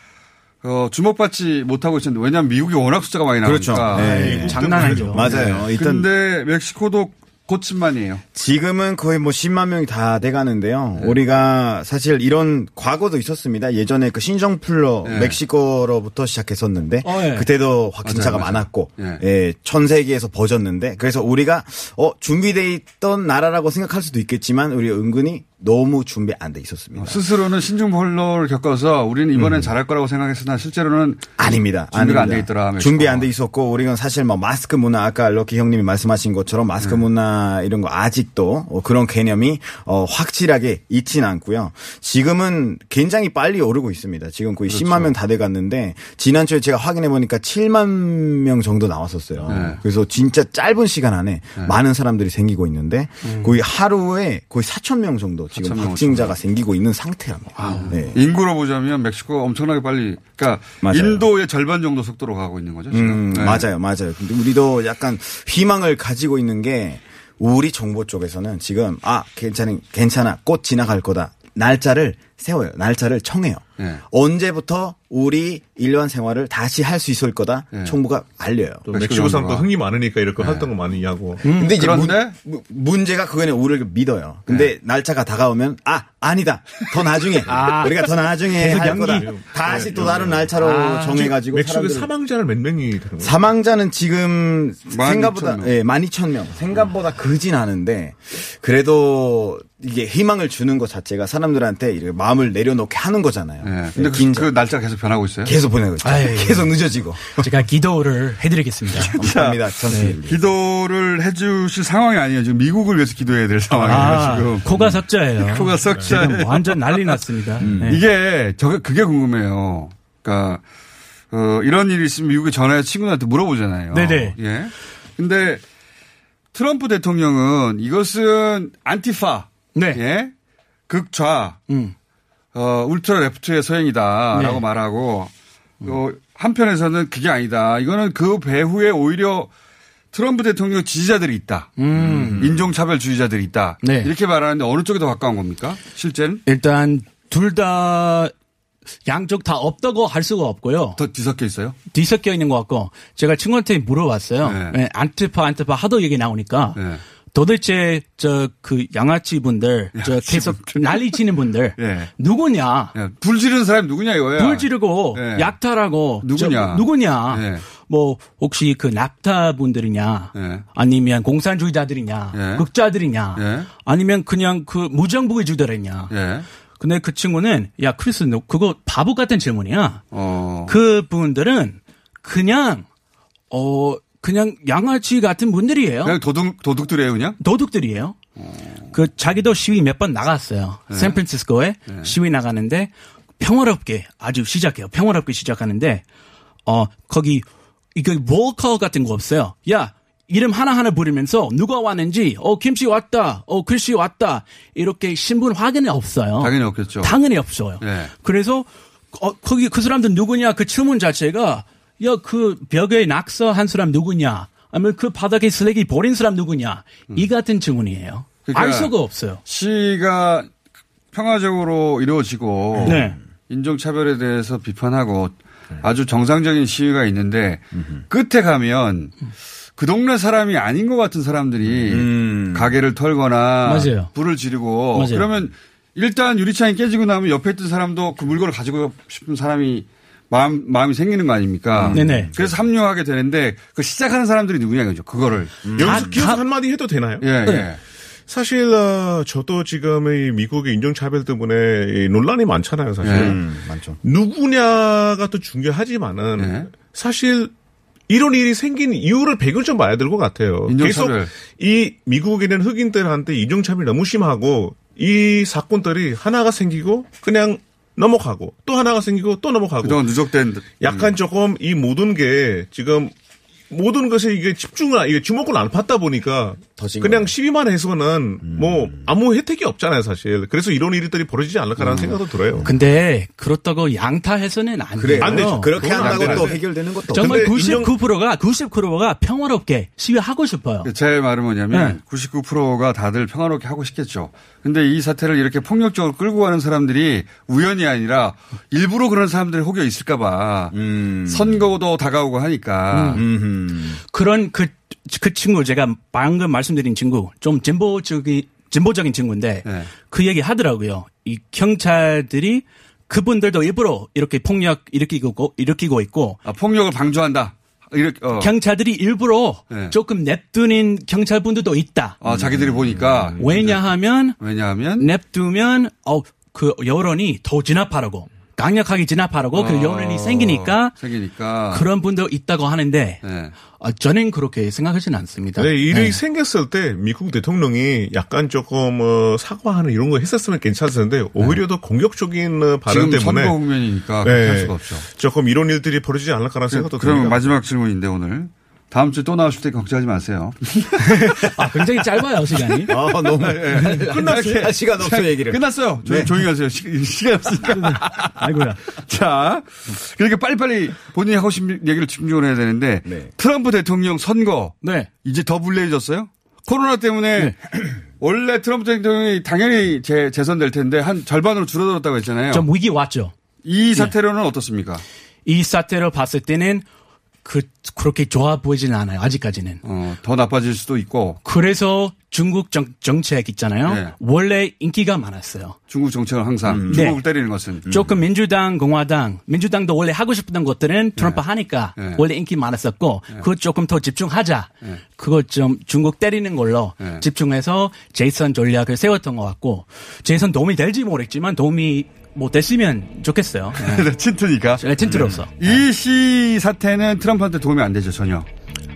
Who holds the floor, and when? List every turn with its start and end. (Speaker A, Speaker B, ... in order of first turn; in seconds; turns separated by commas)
Speaker A: 0.6-8.2, Speaker B: 3.4-6.1, Speaker C: 3.9-5.4, Speaker D: 4.0-5.7, Speaker B: 8.3-27.2, Speaker A: 15.0-15.4, Speaker C: 17.0-17.5, Speaker A: 18.0-19.2, Speaker A: 26.9-33.3, Speaker B: 29.4-29.7, Speaker B: 31.4-58.2, Speaker A: 44.7-45.2, Speaker A: 49.4-49.8, Speaker C: 53.2-53.6, Speaker A: 55.5-56.4, Speaker C: 57.5-58.0, Speaker A: 57.8-63.7, Speaker B: 60.8-61.3, Speaker B: 62.9-79.1, Speaker A: 77.7-78.0, Speaker D: 78.9-81.5, Speaker A: 78.9-79.7, Speaker B: 80.4-80.7, Speaker C: 81.4-81.8, Speaker B: 81.5-92.1, Speaker A: 81.6-82.3, Speaker A: 84.5-84.7, Speaker C: 87.5-89.5, Speaker D: 88.6-93.4, Speaker C: 90.5-91.3, Speaker B: 93.2-104.5, Speaker A: 94.9-95.8, Speaker A: 103.6-105.6, Speaker B: 105.5-107.5, Speaker C: 106.0-106.8, Speaker C: 107.4-109.1, Speaker A: 108.9-120.6, Speaker B: 109.1-110.5, Speaker C: 109.9-110.2, Speaker C: 113.7-118.1, Speaker D: 115.9-116.6, Speaker B: 117.6-118.0, Speaker A: 121.3-125.6, Speaker C: 123.9-124.4, Speaker A: 126.5-130.3, Speaker C: 129.8-130.0, Speaker A: 130.9-131.6, Speaker C: 131.7-131.9, Speaker A: 132.5-135.3, Speaker C: 134.3-134.6, Speaker A: 135.8-139.5, Speaker A: 140.1-141.7, Speaker C: 141.8-142.5, Speaker B: 141.9-142.7, Speaker A: 142.4-146.4, Speaker C: 143.8-144.1, Speaker C: 146.5-148.3, Speaker C: 149.1-151.0, Speaker A: 151.0-151.8, Speaker C: 151.9-156.8, Speaker A: 154.4-154.8, Speaker A: 156.7-157.0, Speaker C: 157.3-162.9, Speaker A: 159.9-161.2, Speaker A: 161.8-162.1, Speaker A: 162.9-165.6, Speaker C: 164.4-176.1, Speaker A: 166.2-167.6, Speaker A: 170.3-170.7, Speaker A: 172.3-172.7, Speaker A: 173.3-173.7, Speaker A: 176.1-176.5, Speaker C: 176.8-180.1, Speaker A: 180.1-180.8, Speaker C: 180.7-182.8, Speaker C: 183.5-186.2, Speaker A: 186.0-187.4, Speaker C: 187.4-188.2, Speaker A: 188.4-188.9, Speaker C: 188.9-196.0, Speaker A: 190.9-191.2, Speaker A: 191.9-192.1, Speaker C: 196.7-219.4, Speaker A: 206.4-207.2, Speaker A: 207.8-208.1, Speaker A: 218.5-218.9, Speaker A: 219.4-220.5, Speaker A: 221.1-229.2, Speaker B: 222.8-223.1, Speaker C: 222.8-223.2, Speaker A: 229.8-245.7, Speaker B: 231.8-232.8, Speaker C: 233.6-234.1, Speaker C: 234.9-235.3, Speaker B: 241.8-242.6, Speaker C: 241.9-242.3, Speaker B: 245.7-246.3, Speaker D: 245.8-247.4, Speaker C: 245.8-246.4, Speaker A: 247.2-247.8, Speaker D: 248.3-253.4, Speaker A: 253.0-253.4, Speaker B: 253.1-254.0, Speaker D: 254.0-257.5, Speaker A: 256.4-256.7, Speaker D: 258.1-270.0, Speaker A: 260.7-261.3, Speaker A: 269.8-271.1, Speaker D: 270.8-273.1, Speaker D: 273.7-282.7, Speaker B: 276.7-277.3, Speaker B: 278.4-279.1, Speaker B: 281.8-282.8, Speaker C: 282.6-285.8, Speaker B: 285.0-287.7, Speaker D: 285.2-288.0, Speaker A: 285.9-286.5, Speaker C: 287.1-290.9, Speaker A: 290.8-300.8, Speaker C: 291.7-292.0, Speaker B: 300.7-301.6, Speaker A: 301.3-303.2, Speaker C: 302.9-303.3, Speaker B: 303.1-304.0, Speaker C: 304.1-316.4, Speaker A: 309.6-309.9, Speaker A: 316.4-318.5, Speaker C: 318.4-322.2, Speaker A: 319.7-320.0, Speaker A: 322.2-325.1, Speaker C: 323.4-324.4, Speaker C: 325.0-330.9, Speaker A: 329.5-331.9, Speaker C: 331.7-336.2, Speaker A: 333.2-333.5, Speaker D: 335.6-343.6, Speaker A: 342.9-345.1, Speaker D: 344.2-347.5, Speaker A: 346.7-351.5, Speaker C: 351.4-352.9, Speaker A: 352.6-367.6, Speaker B: 352.9-356.3, Speaker D: 354.0-354.7, Speaker C: 357.7-358.8, Speaker C: 364.8-365.1, Speaker A: 368.2-372.7, Speaker C: 372.5-373.3, Speaker A: 373.6-375.0, Speaker C: 375.5-376.9, Speaker C: 377.4-379.8, Speaker A: 379.8-381.4, Speaker C: 381.4-385.8, Speaker A: 383.9-384.1, Speaker A: 385.9-387.9, Speaker B: 386.7-387.1, Speaker C: 386.9-387.3, Speaker B: 387.9-388.2, Speaker C: 387.9-404.1, Speaker A: 391.2-391.4, Speaker A: 391.9-392.2, Speaker A: 397.0-397.2, Speaker A: 403.8-408.5, Speaker C: 404.8-405.5, Speaker B: 405.1-405.4